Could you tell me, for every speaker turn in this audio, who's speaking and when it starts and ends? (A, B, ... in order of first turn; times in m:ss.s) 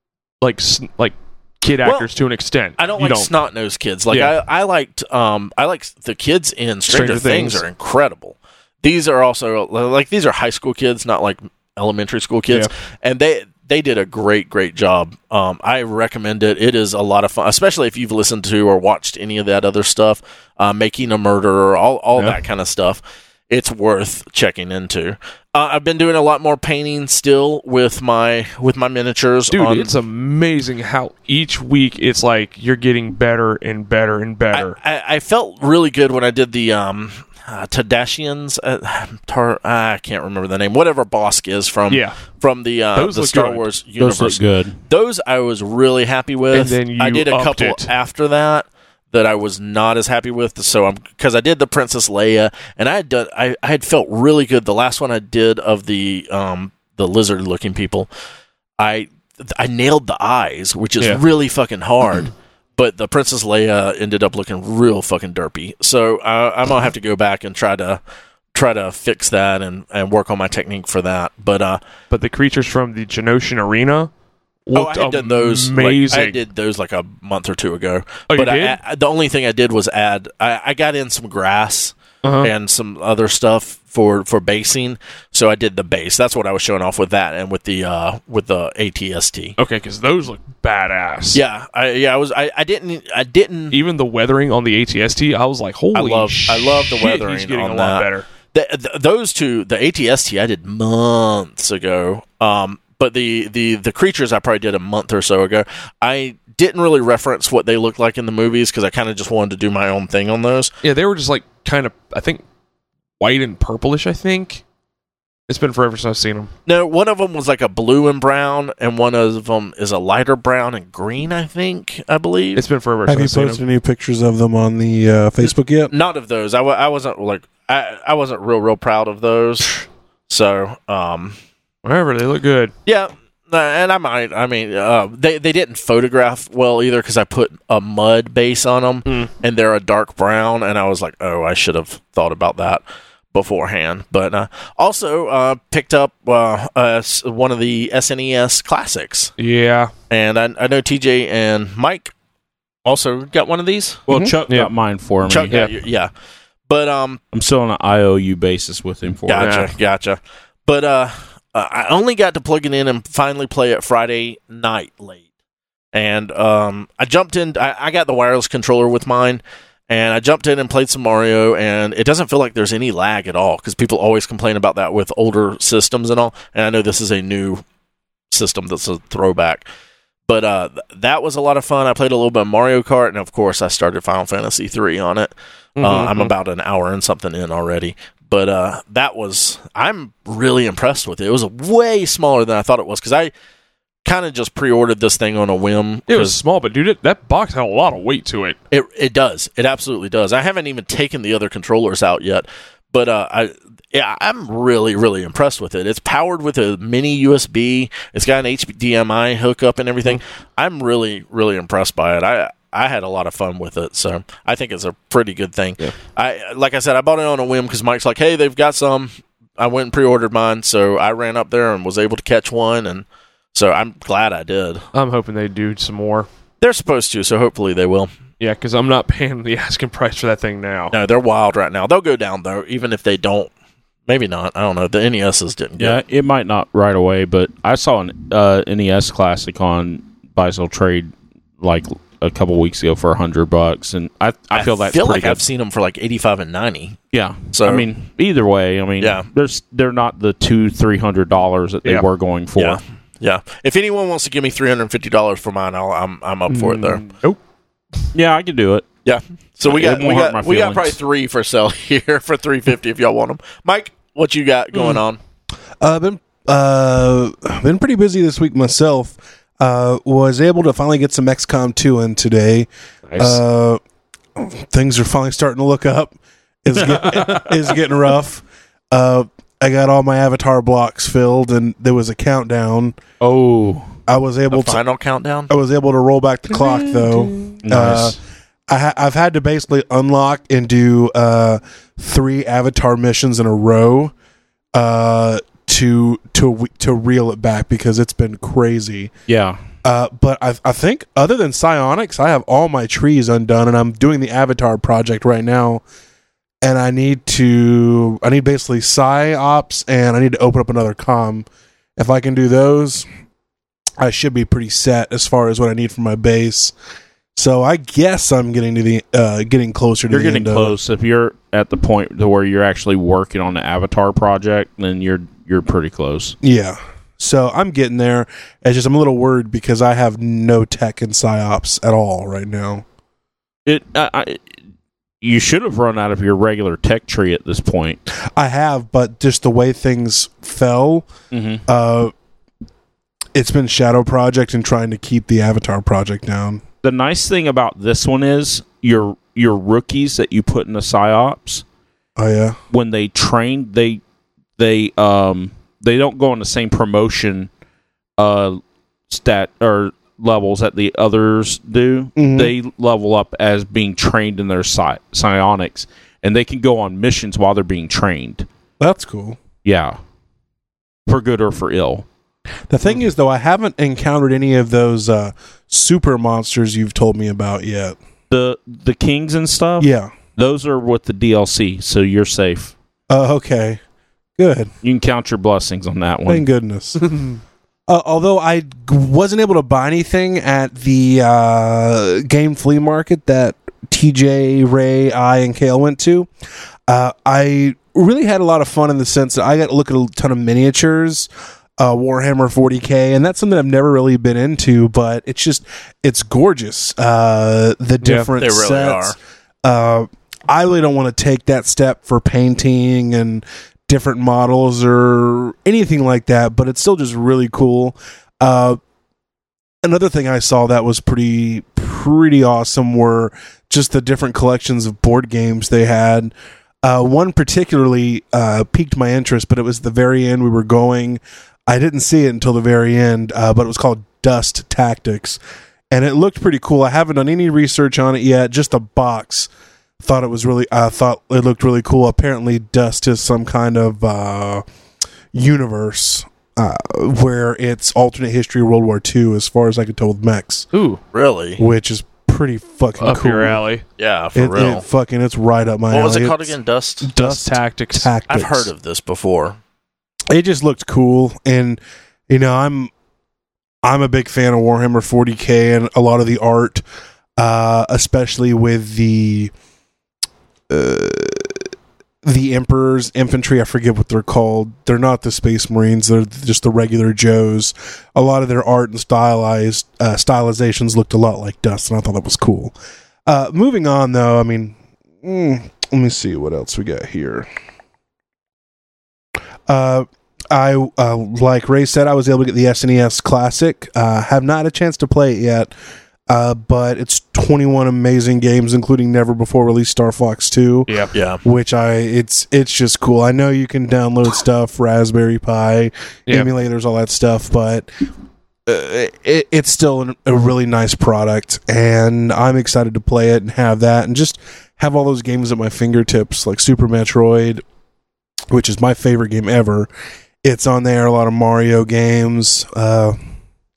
0:00.4-0:03.3 A
0:01.8-0:02.1 B
0:02.8-0:29.9 B
0:04.1-0:04.4 A
0:06.9-0:07.6 A
0:29.5-0:34.8 A
0:34.5-0:58.1 B
0:41.9-0:42.2 A
0:42.9-0:43.6 A
0:44.0-0:44.8 C
0:46.5-0:47.9 A
0:58.8-1:08.0 B
1:08.5-1:11.8 B
1:12.1-1:14.1 A
1:14.6-1:16.4 A
1:14.7-1:29.6 B
1:18.3-1:18.8 A
1:22.2-1:22.5 A
1:29.6-1:31.4 A
1:31.3-1:33.8 B
1:33.7-1:38.3 A
1:35.9-1:50.7 B
1:50.8-1:52.4 A
1:53.2-1:54.6 A
1:55.5-1:56.5 A
1:56.6-2:02.6 B
2:02.5-2:03.6 A
2:03.0-2:05.9 D
2:05.9-2:11.4 B
2:11.8-2:12.7 A
2:12.8-2:29.3 B
2:29.4-2:29.9 A
2:30.1-2:32.1 B
2:32.8-2:34.0 B
2:34.1-2:35.6 C
2:34.1-2:34.4 D
2:35.2-2:36.1 B
2:36.7-2:37.2 B
2:37.3-2:39.6 C
2:39.3-2:45.2 B
2:39.4-2:39.7 A
2:45.9-2:57.6 B
2:58.3-2:59.6 B
3:00.3-3:13.3 B
3:05.8-3:06.3 A
3:14.0-3:16.4 B
3:16.1-3:18.6 A
3:18.7-3:44.8 B
3:44.9-3:46.3 A
3:46.6-3:48.1 B
3:48.4-3:50.9 A
3:50.9-3:53.5 B
3:54.1-3:56.0 B
3:55.8-4:05.4 C
4:04.5-4:07.0 B
4:07.1-4:12.8 C
4:07.5-4:07.8 B
4:09.0-4:09.3 B
4:12.6-4:17.0 B
4:16.5-4:17.4 A
4:18.1-4:18.8 C
4:19.0-4:25.2 B
4:19.6-4:21.0 C
4:25.8-4:33.8 D
4:33.1-4:33.4 C
4:34.4-4:43.0 D
4:36.8-4:37.5 C
4:43.2-4:43.9 C
4:44.1-4:44.8 D
4:44.5-4:45.5 B
4:45.5-4:48.2 D
4:46.6-4:47.5 A
4:47.6-4:48.2 C
4:48.7-4:54.1 D
4:54.7-4:59.1 D
4:59.3-4:59.6 C
4:59.8-5:05.8 D
5:06.6-5:13.1 D
5:14.0-5:16.7 D
5:17.4-5:20.8 D
5:20.1-5:26.4 C
5:26.4-5:32.8 D
5:33.6-5:34.5 C
5:35.2-5:38.0 C
5:38.3-5:41.1 D
5:41.3-5:41.6 C
5:41.7-5:42.1 D
5:43.3-5:46.6 D
5:46.8-5:51.6 C
5:52.2-5:52.6 D
5:52.7-5:54.0 C
5:54.6-5:57.5 C
5:58.2-6:08.5 C
6:02.2-6:02.5 D
6:08.8-6:09.4 D
6:09.6-6:10.0 C
6:11.1-6:12.0 C
6:12.7-6:18.0 D
6:18.3-6:22.7 C
6:19.8-6:20.1 D
6:23.1-6:23.8 D
6:24.4-6:24.7 D
6:24.8-6:26.4 C
6:26.3-6:27.0 D
6:27.0-6:27.3 A
6:27.9-6:36.3 D
6:36.9-6:58.8 D
6:48.0-6:48.3 A
6:48.4-6:49.2 B
6:59.8-7:15.4 D
7:15.9-7:19.5 D
7:20.0-7:24.6 D
7:25.3-7:30.7 D
7:30.7-7:31.0 A
7:31.1-7:31.6 B
7:31.6-7:33.6 D
7:33.0-7:33.8 A
7:34.0-7:34.8 B
7:34.3-7:38.7 D
7:35.9-7:37.1 B
7:37.1-7:38.1 A
7:38.3-7:39.6 B
7:40.3-7:42.9 D
7:43.8-7:46.8 D
7:47.4-7:49.5 D
7:50.7-7:51.7 D
7:52.2-8:02.7 D
8:03.2-8:07.5 D
8:09.7-8:15.7 D
8:16.3-8:27.9 D
8:21.1-8:21.4 B
8:28.6-8:37.6 D
8:38.5-8:39.9 D
8:40.4-8:43.2 D